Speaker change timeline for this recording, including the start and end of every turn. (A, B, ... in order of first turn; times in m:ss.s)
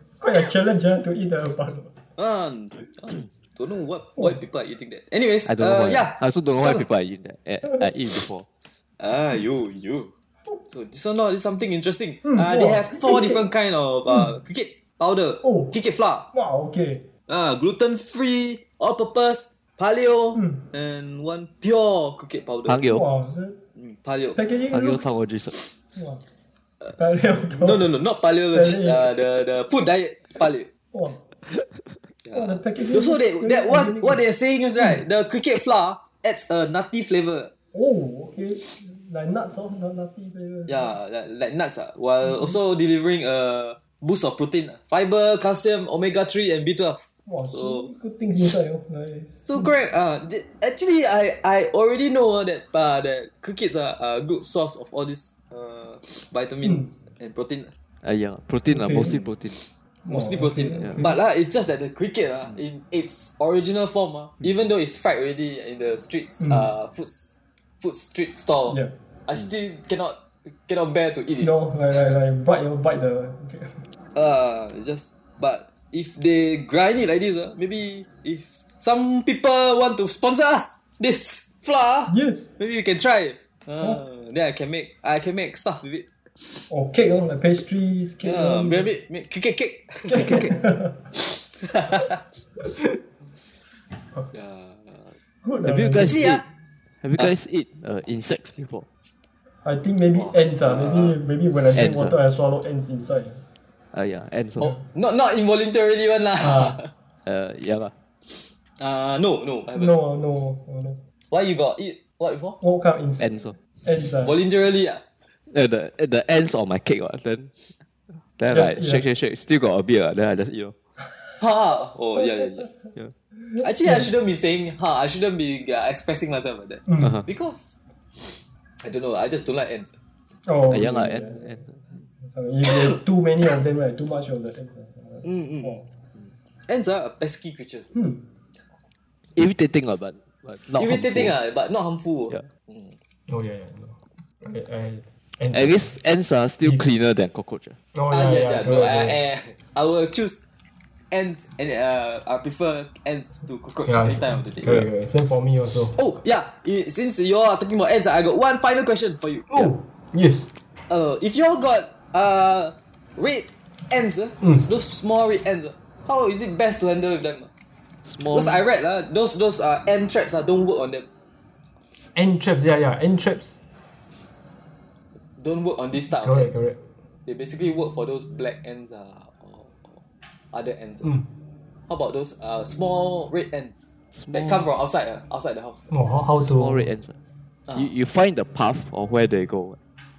0:00.2-0:02.0 A
0:02.2-0:06.9 B
0:05.4-0:08.4 C
0:09.0-0:10.1 B
0:10.7-0:16.3 B
0:12.2-0:13.4 A
0:15.4-0:15.7 A
0:16.3-0:17.1 A
0:17.3-0:23.0 B
0:20.4-0:20.6 A
0:22.7-0:23.1 C
0:22.8-0:23.6 A
0:23.8-0:24.4 B
0:24.3-0:25.1 A
0:24.7-0:25.5 C
0:26.0-0:26.3 A
0:27.0-0:28.0 A
0:27.6-0:30.7 B
0:28.5-0:29.1 A
0:30.9-0:31.3 A
0:32.2-0:37.5 B
0:32.3-0:34.2 A
0:34.8-0:35.0 A
0:37.7-0:41.0 A
0:40.7-0:47.9 B
0:42.2-0:42.6 A
0:47.3-0:49.7 A
0:49.4-0:57.7 B
0:58.0-0:59.6 C
0:58.7-0:59.2 A
0:59.1-1:11.5 B
1:00.0-1:01.2 A
1:06.4-1:06.7 A
1:08.7-1:08.9 A
1:11.4-1:13.9 A
1:14.1-1:26.7 B
1:22.1-1:22.4 A
1:26.7-1:28.9 A
1:28.2-1:30.6 B
1:30.1-1:31.1 A
1:31.2-1:32.2 B
1:32.6-1:33.0 A
1:34.3-1:35.2 B
1:35.4-1:36.4 A
1:35.6-1:36.4 C
1:36.0-1:36.4 B
1:37.0-1:38.9 C
1:39.6-1:43.4 A
1:40.1-1:41.2 B
1:41.7-1:42.2 C
1:43.9-1:44.8 C
1:44.6-1:46.9 B
1:46.4-1:46.8 A
1:47.2-1:47.9 C
1:48.8-1:49.9 B
1:49.7-1:51.0 A
1:51.3-1:52.6 B
1:52.6-1:54.4 A
1:53.2-1:53.6 C
1:54.2-1:55.0 B
1:55.5-1:57.7 C
1:58.4-2:00.7 C
1:58.5-1:59.0 A
2:01.4-2:02.7 B
2:02.2-2:04.1 A
2:03.6-2:10.0 B
2:06.9-2:07.2 A
2:07.0-2:07.3 C
2:10.4-2:11.6 A
2:10.7-2:12.1 C
2:12.2-2:15.9 A
2:12.7-2:13.0 B
2:15.2-2:15.8 B
2:16.7-2:18.0 B
2:17.9-2:18.2 A
2:19.4-2:21.4 C
2:20.8-2:23.0 B
2:23.3-2:25.9 A
2:25.5-2:27.8 C
2:27.9-2:29.2 A
2:28.1-2:30.4 B
2:31.1-2:34.9 B
2:33.9-2:36.0 A
2:36.0-2:39.7 B
2:39.5-2:40.5 A
2:40.9-2:47.5 B
2:48.0-2:48.6 C
2:48.3-2:51.1 B
2:52.1-2:53.6 A
2:55.4-2:56.6 B
2:56.1-2:56.8 A
2:57.3-3:01.1 B
3:01.0-3:01.3 A
3:01.9-3:05.9 B
3:04.1-3:04.7 C
3:05.9-3:06.9 A
3:06.4-3:07.2 C
3:07.7-3:09.8 C